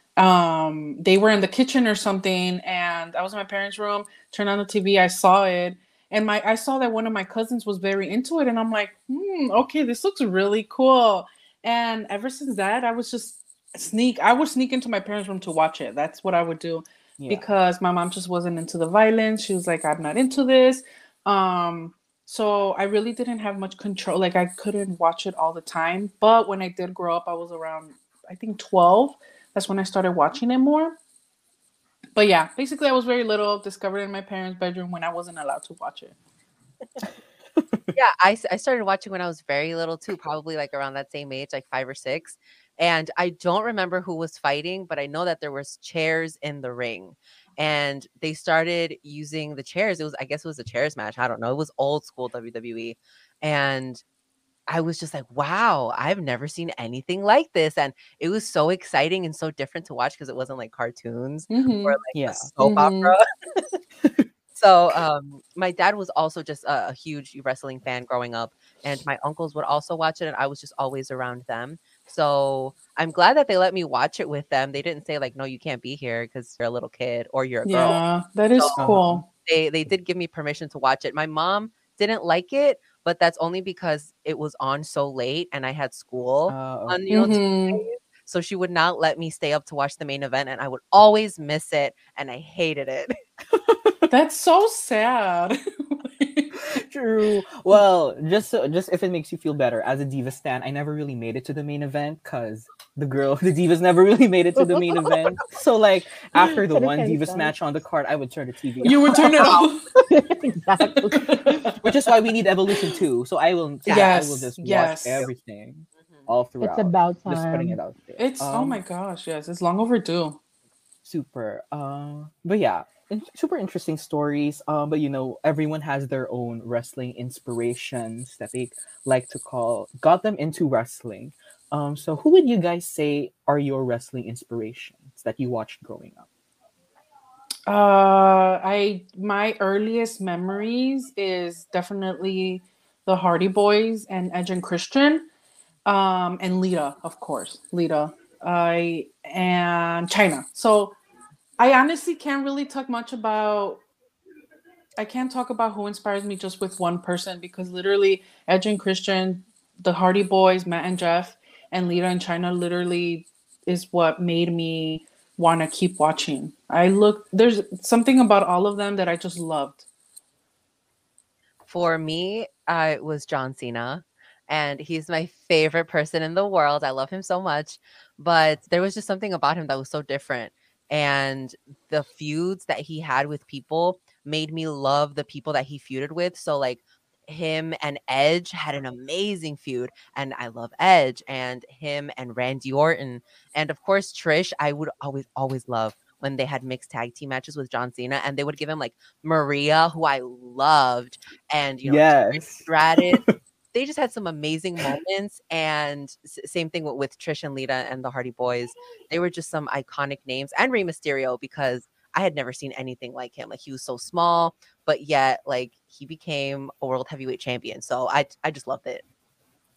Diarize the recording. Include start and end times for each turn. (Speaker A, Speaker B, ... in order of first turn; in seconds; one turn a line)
Speaker A: 0.2-30.9
Speaker B: 17.2-17.5
Speaker A: 32.1-36.1
Speaker B: 37.6-37.9
Speaker C: 37.9-54.0
Speaker C: 54.7-63.2
Speaker A: 61.5-62.0
Speaker B: 62.1-62.5
Speaker A: 62.6-63.1
Speaker C: 64.5-78.0
Speaker A: 77.7-79.2
Speaker C: 78.5-93.2
Speaker B: 78.8-79.2
Speaker B: 86.5-87.4
Speaker A: 87.1-87.8
Speaker B: 93.7-94.0
Speaker A: 94.1-96.5
Speaker B: 96.5-109.6
Speaker D: 104.6-104.9
Speaker D: 106.3-107.5
Speaker A: 108.8-109.8
Speaker D: 110.0-111.8
Speaker A: 111.0-111.8
Speaker B: 111.8-118.8
Speaker C: 113.8-114.1
Speaker A: 113.9-115.2
Speaker D: 116.6-117.8
Speaker A: 118.2-120.4
Speaker B: 121.0-136.3
Speaker A: 137.7-145.3
Speaker A: 145.8-150.9
Speaker A: 151.6-153.8
Speaker A: 155.0-169.8
Speaker C: 171.7-219.0
Speaker B: 201.8-203.3